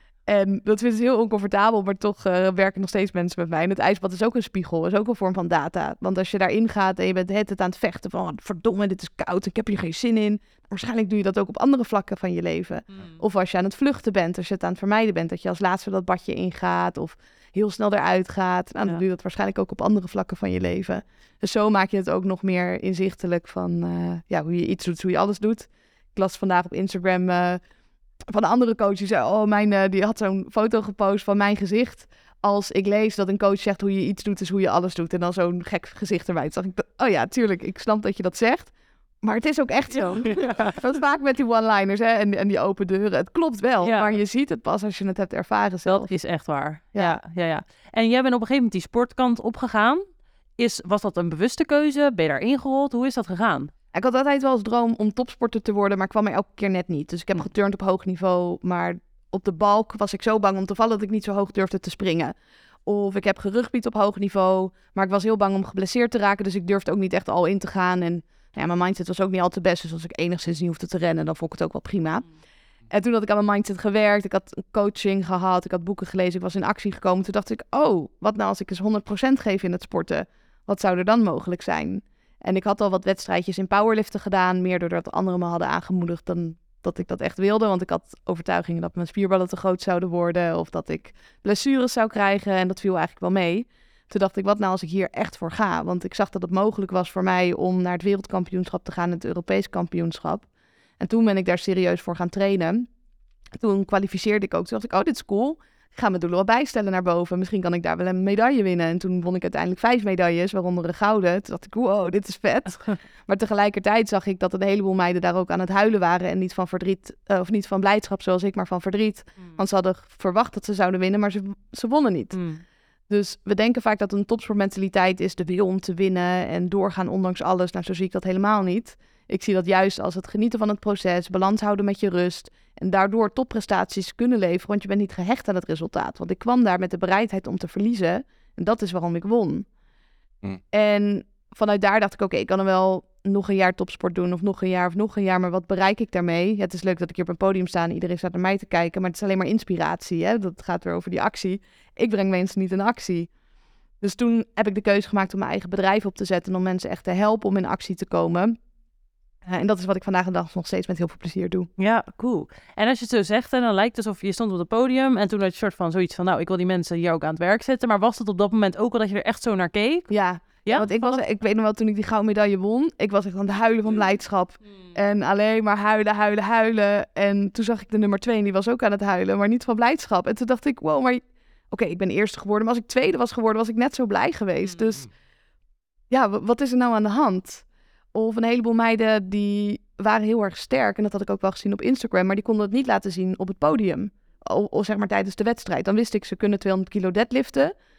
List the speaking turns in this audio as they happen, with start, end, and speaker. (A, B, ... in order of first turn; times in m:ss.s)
0:00.3-0:27.6 A
0:12.9-0:13.2 B
0:28.3-0:46.1 A
0:39.9-0:40.8 B
0:43.8-0:44.1 B
0:45.8-0:50.0 B
0:50.6-0:53.7 B
0:53.9-1:02.3 A
1:02.8-1:12.2 A
1:12.9-1:40.4 A
1:41.0-1:42.9 A
1:43.6-2:02.4 A
2:02.3-2:02.6 B
2:03.1-2:19.6 A
2:20.7-2:33.3 A
2:34.0-2:38.6 A
2:39.4-2:41.7 A
2:41.8-2:51.2 B
2:50.1-3:05.0 A
3:06.1-3:17.7 A